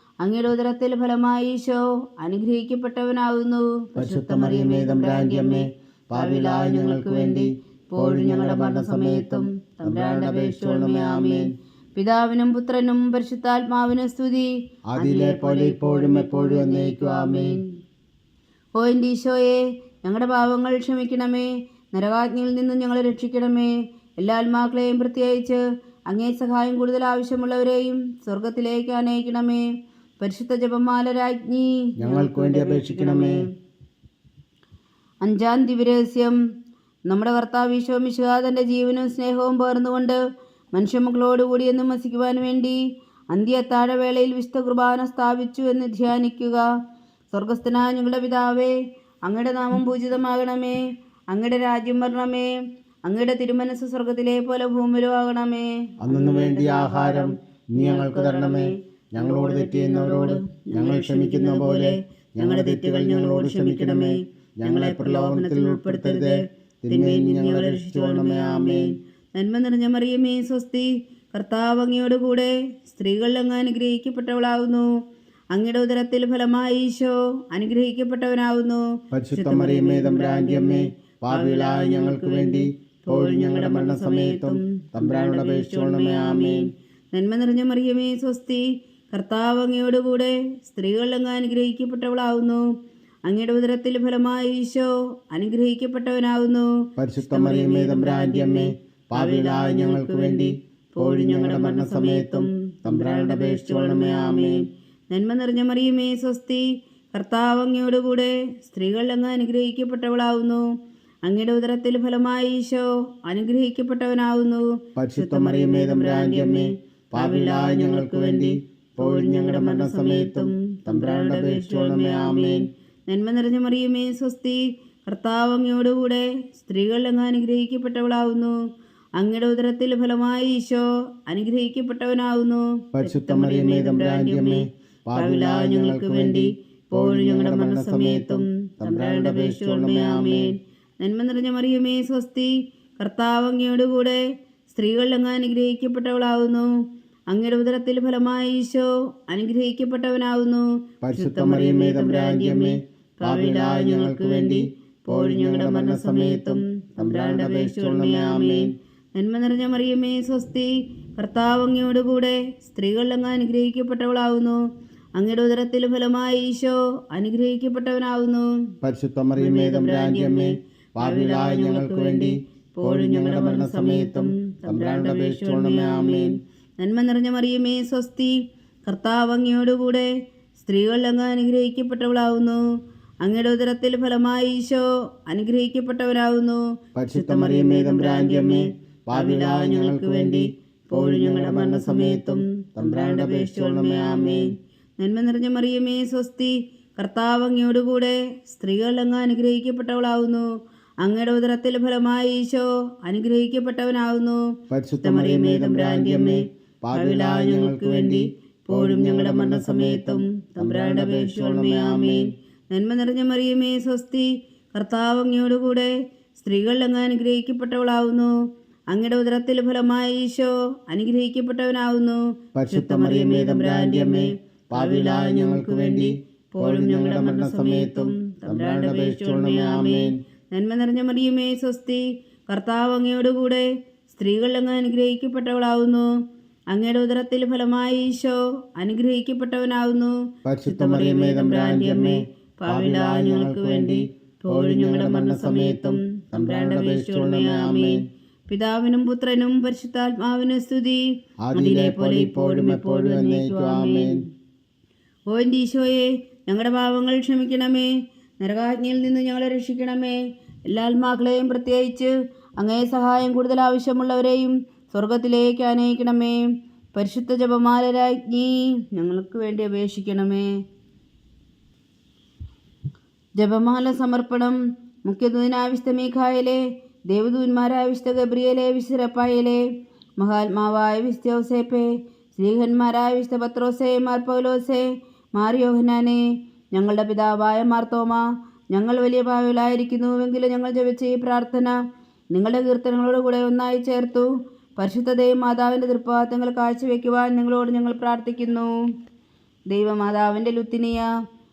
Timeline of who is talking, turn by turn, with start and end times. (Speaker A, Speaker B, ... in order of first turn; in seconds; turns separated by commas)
Speaker A: 0.2-17.6, Speaker B: 4.0-11.5, Speaker B: 14.9-17.6, Speaker A: 18.8-29.7, Speaker A: 30.2-33.5, Speaker B: 32.0-33.4, Speaker A: 35.2-36.4, Speaker A: 37.1-40.2, Speaker A: 40.7-42.8, Speaker A: 43.3-46.6, Speaker A: 47.3-52.5, Speaker A: 53.0-74.9, Speaker B: 56.0-68.9, Speaker A: 75.5-92.7, Speaker B: 79.1-86.7, Speaker A: 93.3-110.7, Speaker B: 97.0-104.6, Speaker A: 111.2-128.6, Speaker B: 115.0-122.6, Speaker A: 129.2-164.6, Speaker B: 132.9-140.5, Speaker B: 151.0-158.7, Speaker A: 165.2-168.5, Speaker B: 168.8-176.3, Speaker A: 169.4-182.6, Speaker A: 183.2-200.5, Speaker B: 186.9-194.5, Speaker A: 201.0-204.4, Speaker B: 204.7-212.3, Speaker A: 205.0-218.3, Speaker A: 218.9-236.1, Speaker B: 222.6-230.1, Speaker A: 236.7-254.2, Speaker B: 240.4-248.0, Speaker B: 251.4-254.2, Speaker A: 255.3-266.4, Speaker A: 266.9-270.5, Speaker A: 273.4-279.6, Speaker A: 280.2-286.2, Speaker A: 286.7-291.8, Speaker A: 292.3-298.7, Speaker A: 299.7-301.1